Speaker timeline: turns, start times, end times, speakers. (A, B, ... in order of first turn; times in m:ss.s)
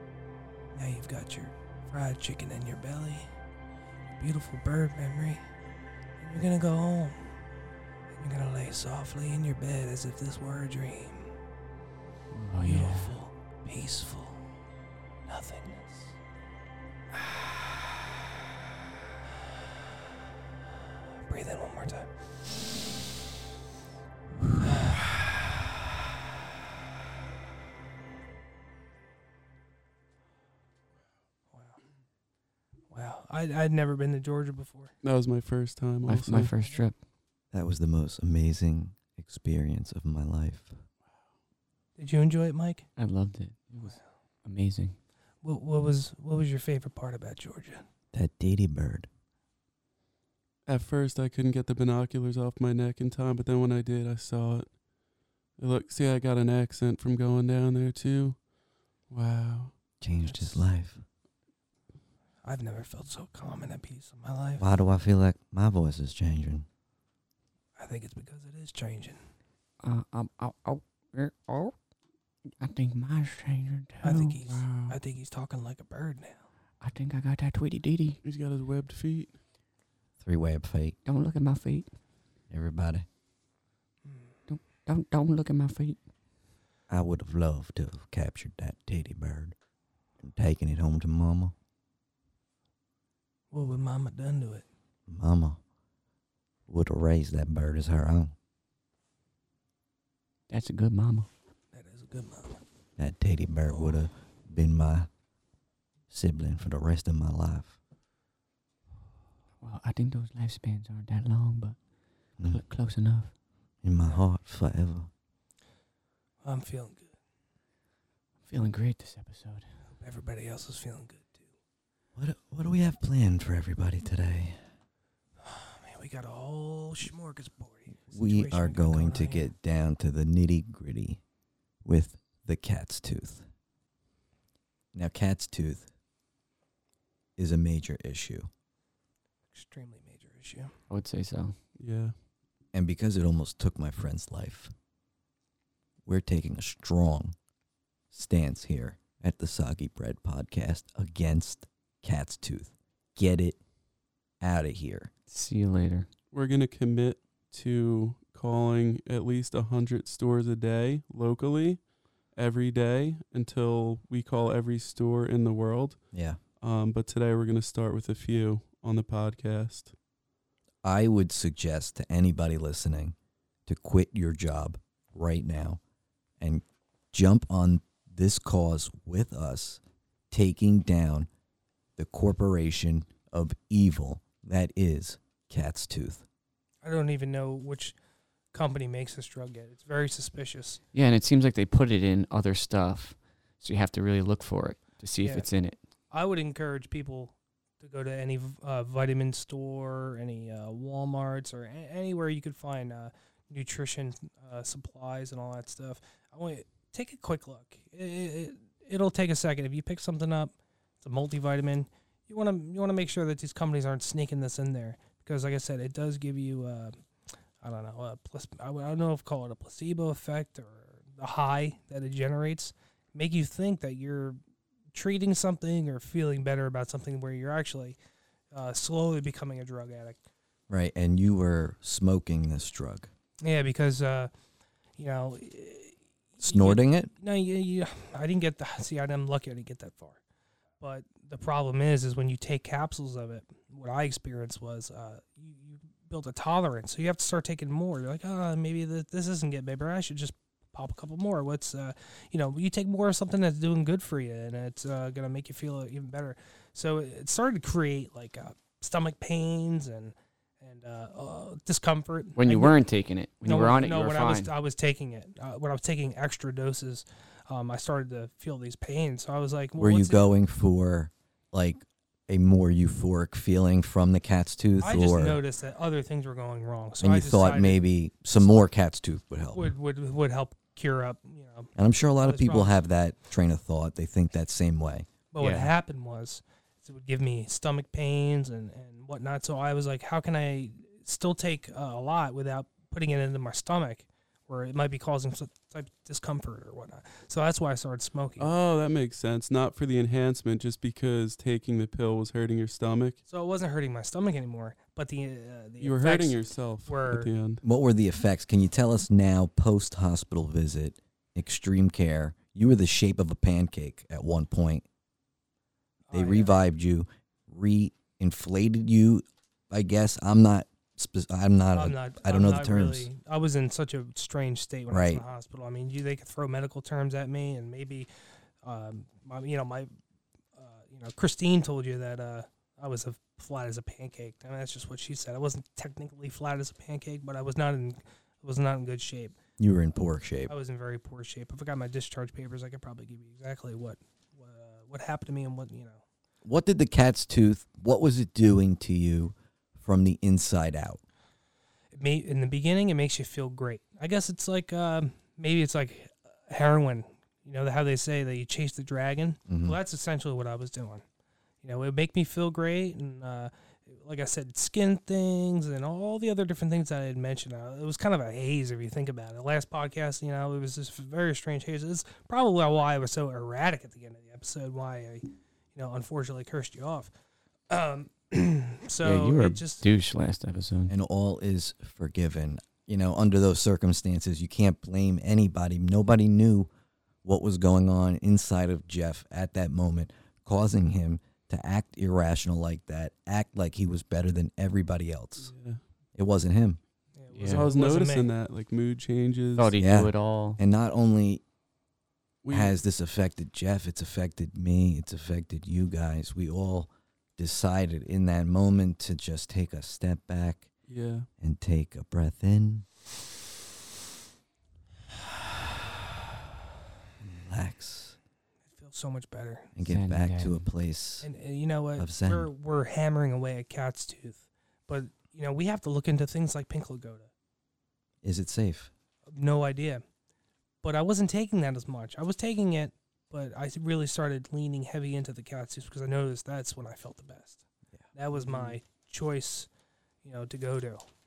0:00.7-0:03.3 A
0:04.2-0:05.4 A
0:06.2-0:07.4 A
0:08.2-0:11.3 A
0:12.3-0:13.2 B
0:12.6-0:14.5 A
0:15.3-0:16.2 A
0:21.3-0:22.1 A
0:24.6-0:25.3 A
0:31.5-0:31.8 A
0:32.9-0:34.9 A
0:35.0-0:36.5 C
0:36.1-0:37.0 B
0:37.5-0:40.8 D
0:42.0-0:42.9 A
0:43.0-0:45.0 B
0:45.4-0:47.8 A
0:48.1-0:49.1 D
0:50.7-0:54.7 C
0:55.6-0:58.4 C
0:59.1-0:59.7 C
1:00.0-1:01.0 D
1:00.2-1:00.6 A
1:02.4-1:04.6 A
1:04.6-1:06.7 D
1:07.8-1:09.2 A
1:09.8-1:11.8 B
1:12.6-1:14.9 B
1:14.0-1:16.5 A
1:16.8-1:18.2 B
1:18.2-1:19.4 C
1:20.2-1:21.0 D
1:21.0-1:21.9 B
1:22.5-1:23.1 D
1:24.0-1:24.4 A
1:24.5-1:26.0 B
1:26.9-1:29.6 D
1:30.2-1:31.6 D
1:33.5-1:34.7 A
1:35.1-1:35.6 D
1:36.7-1:38.4 D
1:40.5-1:41.3 B
1:41.7-1:42.6 A
1:43.0-1:45.1 D
1:43.7-1:43.9 A
1:46.1-1:47.8 D
1:49.6-1:51.8 B
1:52.4-1:52.6 D
1:52.4-1:53.3 B
1:53.8-1:55.1 D
1:56.4-1:57.1 A
1:58.4-1:59.7 B
2:00.0-2:01.5 A
2:02.2-2:04.7 D
2:05.4-2:09.5 A
2:08.1-2:11.2 D
2:11.8-2:13.5 D
2:14.9-2:15.9 D
2:17.4-2:18.5 D
2:19.5-2:20.7 A
2:20.9-2:21.6 B
2:21.8-2:22.2 C
2:22.7-2:24.7 D
2:26.0-2:27.4 D
2:28.1-2:33.6 D
2:34.4-2:35.1 D
2:35.3-2:36.1 B
2:36.3-2:41.8 C
2:42.4-2:46.0 C
2:46.1-2:46.4 D
2:46.6-2:49.9 C
2:50.8-2:53.2 D
2:53.7-2:55.8 D
2:56.4-3:01.3 D
3:02.0-3:06.2 D
3:06.8-3:08.0 A
3:08.5-3:10.8 A
3:10.9-3:15.8 B
3:16.1-3:37.0 A
3:37.6-3:44.4 A
3:44.9-3:48.0 A
3:48.5-3:50.2 A
3:50.7-3:53.1 D
3:53.4-3:54.3 A
3:55.0-4:00.2 A
3:56.4-3:57.1 D
4:00.8-4:22.8 A
4:22.4-4:24.5 B
4:23.4-4:30.3 A
4:29.8-4:35.4 D
4:34.8-4:37.8 A
4:37.0-4:39.7 D
4:39.5-4:42.8 A
4:41.8-4:45.1 D
4:45.3-4:58.5 A
4:45.4-4:45.7 B
4:58.4-5:03.2 C
5:03.3-5:07.3 A
5:05.8-5:07.6 C
5:07.6-5:14.8 D
5:16.1-5:16.6 A
5:16.1-5:23.1 D
5:21.8-5:28.1 A
5:24.9-5:25.2 D
5:28.6-5:29.9 A
5:30.6-5:39.4 A
5:39.6-5:40.5 D
5:40.5-5:46.0 A
5:46.4-5:51.0 D
5:51.9-6:01.0 A
5:59.5-5:59.8 D
6:01.6-6:17.1 A
6:17.7-6:19.8 A
6:19.0-6:20.9 B
6:20.9-6:26.7 D
6:27.2-6:35.5 D
6:35.4-6:35.8 C
6:36.2-6:36.8 D
6:37.2-6:38.3 A
6:37.3-6:37.7 B
6:37.5-6:39.8 C
6:39.6-6:40.6 B
6:39.8-6:41.4 D
6:42.4-6:42.7 C
6:42.5-6:50.7 D
6:50.9-6:51.3 C
6:51.4-6:52.9 D
6:57.2-6:58.2 D
6:58.7-6:59.7 A
6:59.8-7:01.3 D
6:59.8-7:00.7 B
7:01.2-7:07.3 A
7:02.0-7:02.5 D
7:08.2-7:08.9 D
7:09.3-7:10.0 A
7:10.8-7:17.6 A
7:18.2-7:19.7 A
7:18.4-7:18.8 C
7:20.2-7:21.1 A